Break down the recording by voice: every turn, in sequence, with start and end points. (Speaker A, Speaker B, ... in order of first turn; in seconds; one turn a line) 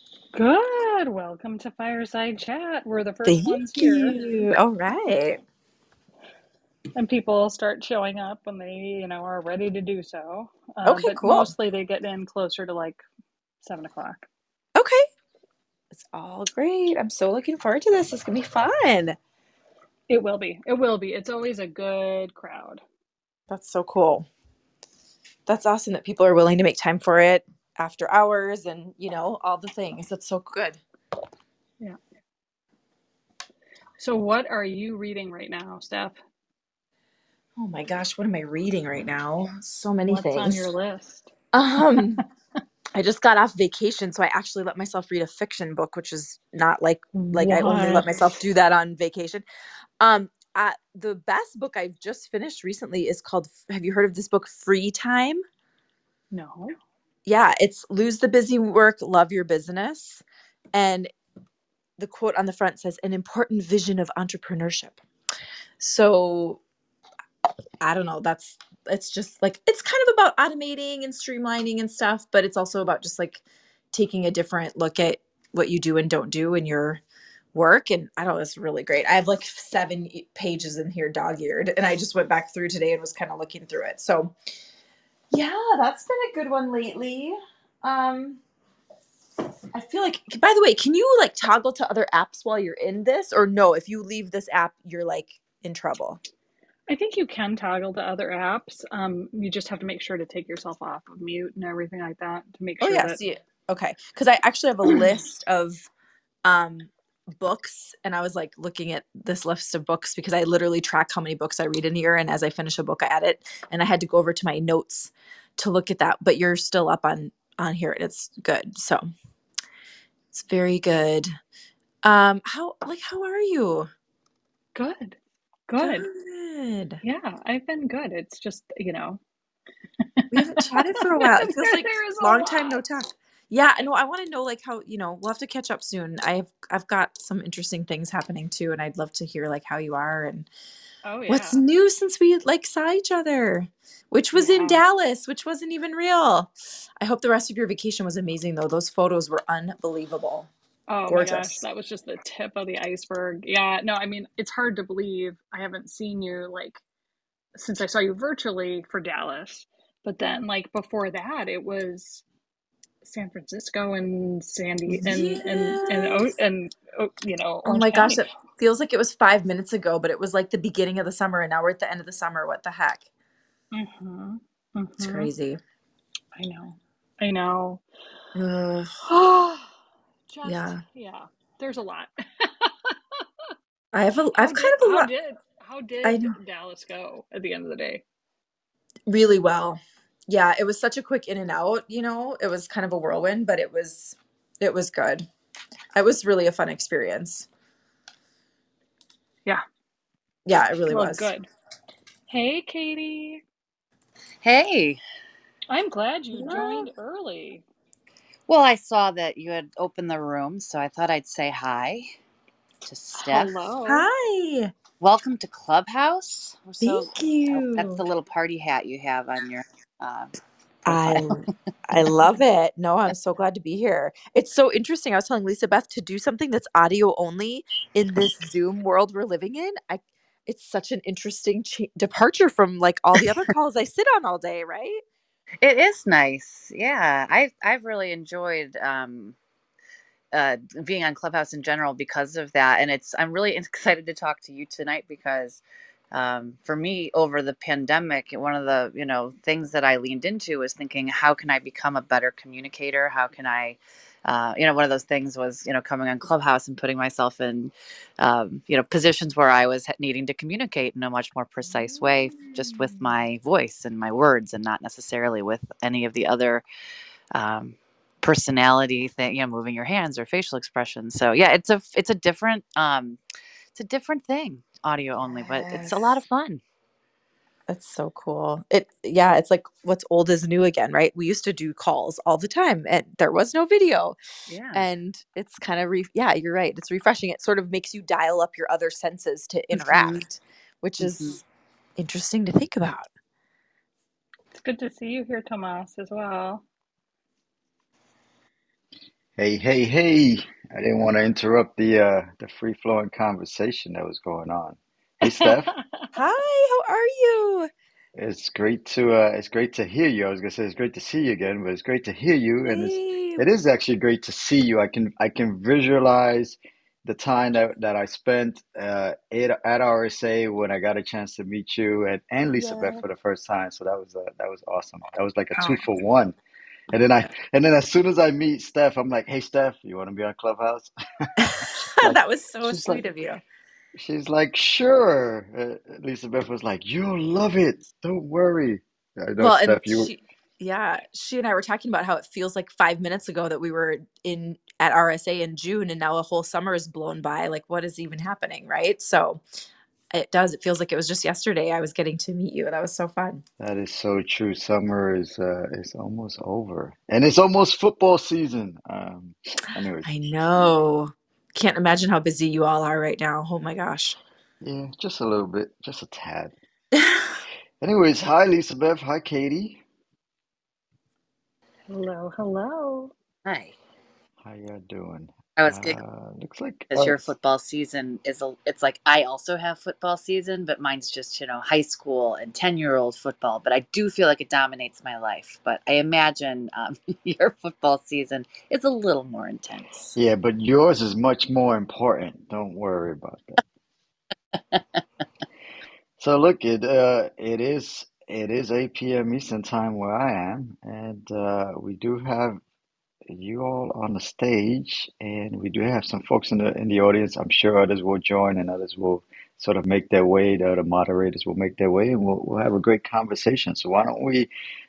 Speaker A: 0.3-4.3
Speaker B: 3.2-5.4
Speaker A: 7.0-13.0
Speaker B: 10.8-11.5
Speaker A: 13.6-14.3
Speaker B: 14.8-15.1
Speaker B: 15.9-19.2
Speaker A: 20.1-22.8
Speaker B: 23.5-24.3
Speaker B: 25.5-30.8
Speaker A: 34.0-36.2
Speaker B: 37.6-40.7
Speaker A: 40.1-41.3
Speaker B: 41.5-42.2
Speaker B: 42.9-49.4
Speaker A: 47.1-48.2
Speaker B: 50.0-55.4
Speaker A: 56.3-56.8
Speaker B: 57.3-61.1
Speaker B: 62.0-65.0
Speaker B: 65.8-66.6
Speaker B: 67.8-77.0
Speaker B: 77.5-84.3
Speaker B: 85.3-88.4
Speaker B: 89.7-96.2
Speaker A: 96.9-103.2
Speaker B: 102.8-105.9
Speaker B: 106.5-119.1
Speaker B: 120.3-121.3
Speaker B: 122.0-123.9
Speaker A: 124.8-125.2
Speaker A: 125.7-126.1
Speaker B: 125.8-127.0
Speaker A: 127.0-129.2
Speaker A: 130.2-132.8
Speaker B: 130.3-140.5
Speaker A: 141.1-141.6
Speaker B: 141.3-150.5
Speaker A: 144.3-144.8
Speaker A: 150.9-156.8
Speaker B: 151.1-151.6
Speaker A: 157.6-162.2
Speaker A: 163.0-168.2
Speaker B: 164.9-166.4
Speaker B: 167.7-173.1
Speaker A: 173.7-175.3
Speaker B: 175.0-175.6
Speaker A: 176.4-177.8
Speaker B: 178.3-179.1
Speaker A: 179.1-179.7
Speaker A: 180.3-183.2
Speaker B: 180.4-180.8
Speaker B: 183.9-185.1
Speaker A: 184.4-188.0
Speaker B: 186.0-186.4
Speaker B: 189.1-195.3
Speaker B: 195.9-197.5
Speaker B: 200.5-201.3
Speaker A: 200.9-201.5
Speaker A: 202.3-203.4
Speaker C: 204.4-205.0
Speaker A: 205.7-207.6
Speaker B: 206.3-206.9
Speaker C: 208.5-212.1
Speaker C: 212.8-213.6
Speaker A: 213.2-214.1
Speaker B: 213.8-214.7
Speaker C: 215.0-220.3
Speaker B: 216.8-218.1
Speaker B: 220.8-235.0
Speaker C: 220.9-221.4
Speaker C: 235.6-239.4
Speaker C: 240.3-266.6
Speaker B: 261.7-263.0
Speaker C: 267.3-273.2
Speaker C: 273.7-276.6
Speaker B: 275.3-276.2
Speaker B: 277.7-284.2
Speaker C: 284.5-284.9
Speaker B: 284.7-291.4
Speaker C: 289.7-290.3
Speaker C: 291.0-291.4
Speaker B: 292.0-293.1
Speaker A: 294.5-296.6
Speaker D: 299.4-305.7
Speaker A: 305.3-305.9
Speaker B: 306.1-307.7
Speaker D: 308.2-326.4
Speaker B: 312.7-313.4
Speaker B: 322.5-323.0
Speaker B: 325.6-325.8
Speaker D: 326.9-333.1
Speaker B: 331.4-333.4
Speaker D: 334.0-340.1
Speaker B: 339.4-349.4
Speaker B: 350.1-353.4
Speaker D: 353.6-360.1
Speaker B: 360.0-364.2
Speaker D: 364.6-366.5
Speaker B: 366.9-367.3
Speaker D: 367.8-369.8
Speaker A: 371.9-373.1
Speaker C: 373.4-373.8
Speaker D: 374.4-377.3
Speaker C: 375.6-376.0
Speaker C: 376.9-390.2
Speaker D: 390.2-393.6
Speaker D: 396.2-402.6
Speaker D: 403.3-414.5